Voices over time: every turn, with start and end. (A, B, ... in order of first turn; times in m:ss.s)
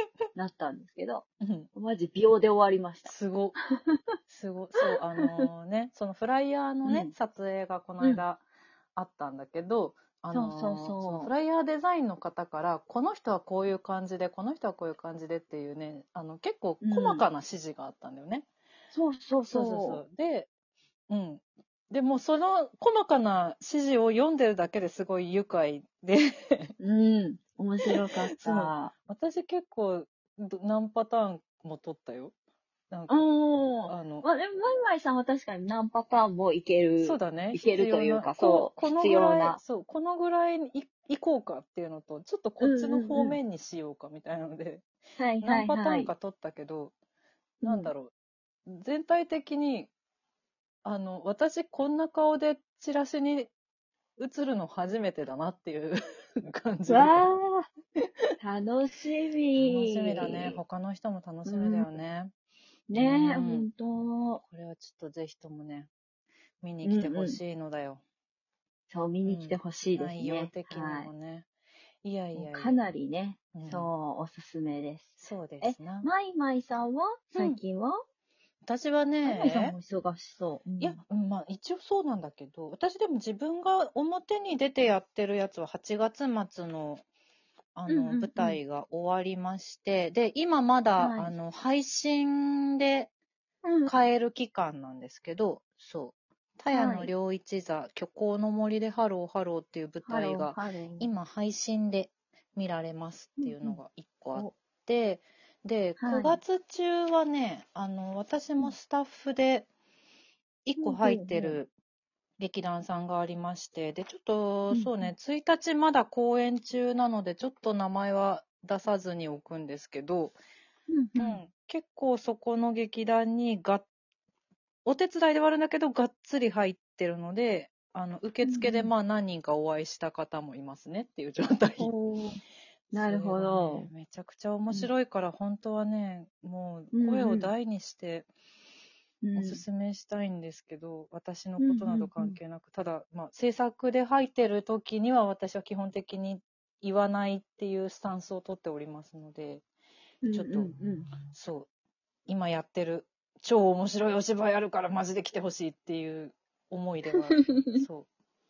0:00.3-0:03.1 A
0:01.4-0:01.7 B
0:03.0-0:03.6 B
0:04.3-0:08.4 B
0:04.9-0:05.5 A
0:06.8-0:07.1 A
0:09.0-0:18.4 B
0:10.3-0:11.3 A
0:16.8-0:17.2 A
0:18.9-0:20.0 A
0:19.5-0:20.5 B
0:21.1-0:26.7 B
0:26.8-0:28.9 A
0:27.8-0:32.3 B
0:32.9-0:33.3 B
0:33.1-0:39.6 A
0:33.8-0:34.2 B
0:37.0-0:44.8 B
0:42.6-0:43.4 A
0:45.2-0:46.1 A
0:45.4-0:46.9 B
0:47.6-0:47.9 A
0:47.6-0:48.1 B
0:48.6-0:49.9 B
0:50.8-0:53.5 B
0:54.2-0:57.3 B
0:56.9-0:57.7 A
0:58.4-1:00.6 A
0:59.5-1:02.3 B
1:01.4-1:01.9 A
1:02.9-1:04.4 A
1:02.9-1:03.7 B
1:04.4-1:05.9 B
1:06.6-1:08.0 B
1:06.8-1:07.4 A
1:08.9-1:11.1 A
1:09.2-1:11.5 B
1:12.0-1:12.9 B
1:12.3-1:18.0 A
1:13.5-1:13.9 B
1:15.2-1:16.1 B
1:17.3-1:17.6 B
1:18.6-1:19.7 B
1:19.2-1:21.0 A
1:20.8-1:27.0 B
1:27.7-1:33.1 B
1:27.9-1:28.6 A
1:31.0-1:31.3 A
1:33.6-1:33.9 A
1:33.9-1:49.7 B
1:36.7-1:37.1 A
1:40.0-1:41.1 A
1:43.4-1:43.8 A
1:46.0-1:46.4 A
1:50.6-1:51.7 B
1:50.8-1:51.6 A
1:52.4-2:00.3 B
1:54.7-1:55.1 A
2:00.9-2:01.4 A
2:01.2-2:03.8 B
2:04.8-2:11.9 B
2:08.4-2:08.9 A
2:11.8-2:12.4 A
2:12.9-2:18.3 B
2:12.9-2:13.9 A
2:16.9-2:17.5 A
2:19.2-2:19.6 A
2:19.3-2:29.6 B
2:21.6-2:22.4 A
2:30.2-2:31.1 A
2:30.3-2:31.7 B
2:32.3-2:38.1 B
2:37.3-2:37.8 A